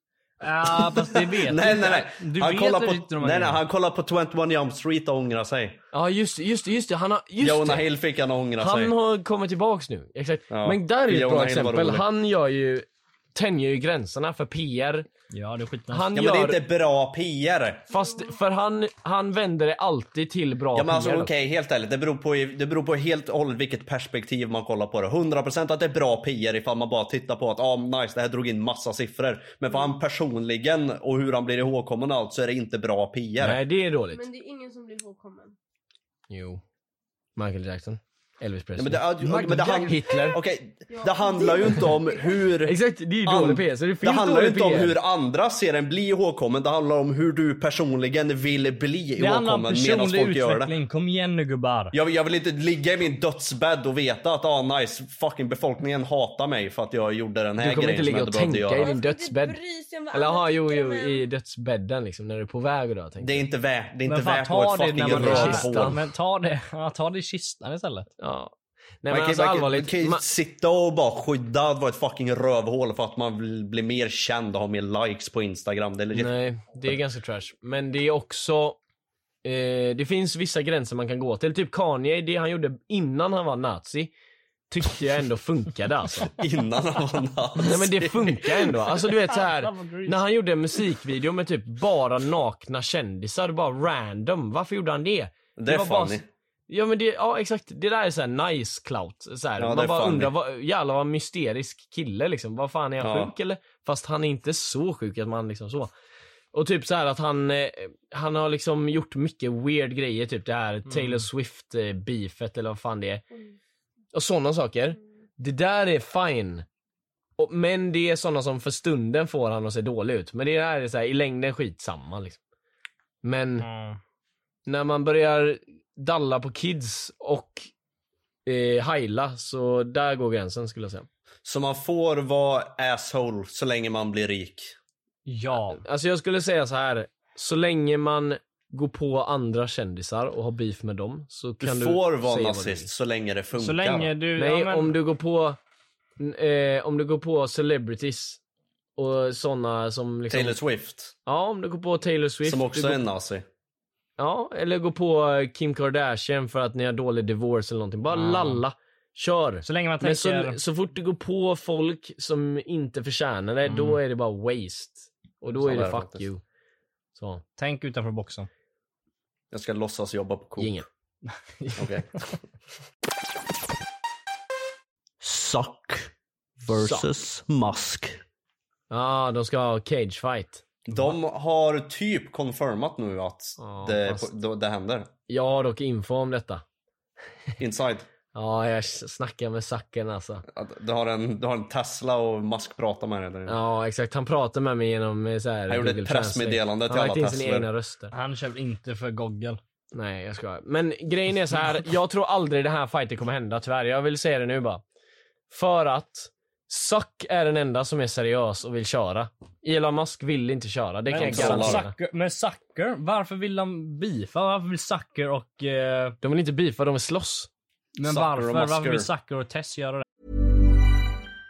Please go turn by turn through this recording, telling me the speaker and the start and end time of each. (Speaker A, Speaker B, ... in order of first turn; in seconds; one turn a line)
Speaker A: 0.4-3.6
Speaker B: 0.8-5.8
Speaker C: 5.9-7.9
Speaker B: 7.4-8.9
Speaker C: 8.6-15.1
Speaker B: 10.5-12.1
Speaker A: 15.3-16.1
Speaker C: 15.9-16.6
Speaker B: 16.1-17.9
Speaker D: 17.9-18.4
Speaker C: 17.9-21.3
Speaker B: 20.8-33.6
Speaker C: 33.4-34.3
Speaker D: 34.1-35.6
Speaker C: 36.3-36.6
Speaker C: 37.4-40.4
Speaker B: 38.8-42.7
Speaker A: 39.2-39.9
Speaker D: 40.9-42.4
Speaker C: 42.6-45.0
Speaker B: 43.2-50.7
Speaker A: 49.2-51.9
Speaker B: 51.9-59.0
Speaker C: 57.6-59.6
Speaker D: 58.8-61.2
Speaker C: 60.1-63.5
Speaker B: 63.2-66.0
Speaker A: 64.1-68.1
Speaker C: 65.0-66.0
Speaker C: 68.2-70.2
Speaker B: 69.1-76.3
Speaker C: 76.1-78.8
Speaker C: 79.4-84.1
Speaker C: 84.7-86.3
Speaker B: 86.4-88.5
Speaker C: 87.6-105.9
Speaker A: 89.0-90.2
Speaker B: 95.6-96.3
Speaker B: 99.6-100.3
Speaker B: 103.0-103.3
Speaker C: 106.5-113.2
Speaker A: 110.9-111.3
Speaker C: 114.1-116.7
Speaker C: 117.4-122.4
Speaker C: 123.2-123.7
Speaker A: 123.6-124.0
Speaker C: 124.7-127.7
Speaker C: 128.5-131.1
Speaker B: 131.4-134.8
Speaker A: 135.3-135.8
Speaker C: 135.7-142.9
Speaker B: 141.6-144.1
Speaker A: 143.6-145.0
Speaker C: 144.4-145.6
Speaker C: 146.2-148.4
Speaker C: 149.0-150.6
Speaker B: 150.3-151.2
Speaker C: 151.3-153.0
Speaker B: 152.4-153.5
Speaker C: 154.2-166.4
Speaker A: 158.1-158.6
Speaker A: 159.6-160.6
Speaker A: 163.7-164.0
Speaker B: 165.5-166.3
Speaker C: 167.2-167.4
Speaker A: 167.6-168.5
Speaker B: 169.5-170.7
Speaker C: 170.6-170.9
Speaker B: 171.8-172.1
Speaker B: 175.2-176.1
Speaker C: 176.7-177.1
Speaker B: 176.7-178.2
Speaker C: 178.9-180.6
Speaker B: 180.9-185.1
Speaker C: 183.6-184.3
Speaker C: 185.3-186.6
Speaker B: 187.6-188.1
Speaker C: 188.3-190.4
Speaker B: 190.5-193.6
Speaker C: 193.5-198.1
Speaker B: 195.7-197.7
Speaker A: 198.1-199.6
Speaker C: 199.9-204.8
Speaker C: 205.5-211.9
Speaker A: 211.1-216.2
Speaker B: 211.2-211.8
Speaker C: 216.2-217.5
Speaker A: 218.0-220.1
Speaker B: 218.0-219.1